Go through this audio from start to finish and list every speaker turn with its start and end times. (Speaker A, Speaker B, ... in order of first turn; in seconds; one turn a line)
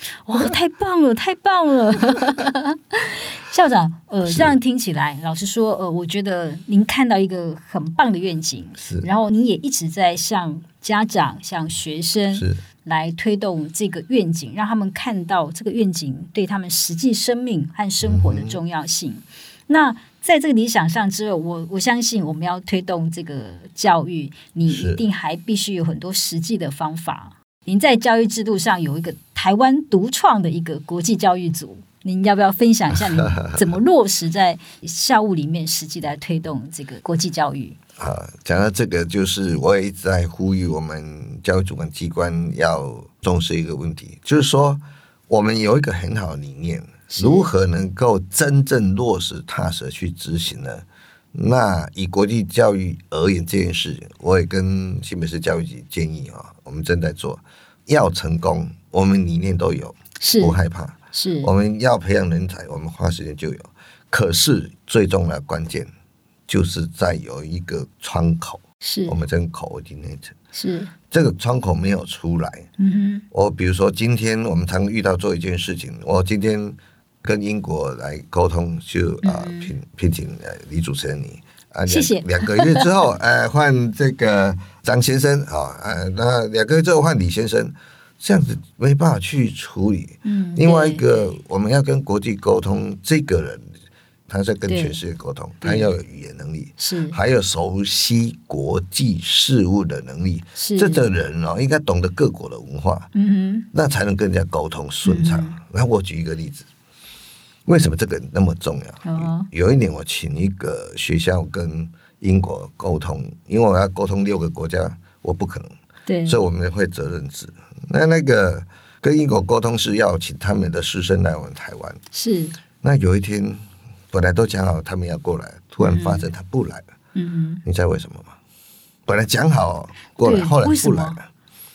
Speaker A: 0.2-37.8
Speaker B: 4.2-4.5
Speaker B: 8.8-9.1
Speaker B: 12.3-12.6
Speaker B: 18.0-18.6
Speaker B: 24.6-25.0
Speaker B: 33.2-33.6
Speaker B: 38.0-65.9
Speaker A: 47.1-47.5
Speaker A: 60.2-60.6
Speaker A: 61.1-61.5
Speaker B: 66.5-70.3
Speaker A: 68.8-69.2
Speaker A: 70.5-70.9
Speaker B: 71.1-72.7
Speaker A: 72.8-73.2
Speaker B: 73.3-93.7
Speaker A: 79.2-79.7
Speaker A: 81.9-82.9
Speaker A: 90.2-91.0
Speaker B: 94.3-103.1
Speaker A: 94.7-94.9
Speaker A: 95.6-95.9
Speaker A: 96.8-97.2
Speaker A: 100.5-101.0
Speaker A: 103.1-103.7
Speaker B: 103.7-106.7
Speaker A: 105.0-105.6
Speaker B: 107.7-115.7
Speaker A: 109.0-109.5
Speaker A: 116.0-116.4
Speaker B: 116.3-122.0
Speaker A: 122.1-122.5
Speaker B: 122.8-126.9
Speaker A: 125.8-126.3
Speaker A: 127.1-127.6
Speaker B: 127.6-128.4
Speaker B: 129.1-131.3
Speaker A: 130.2-131.2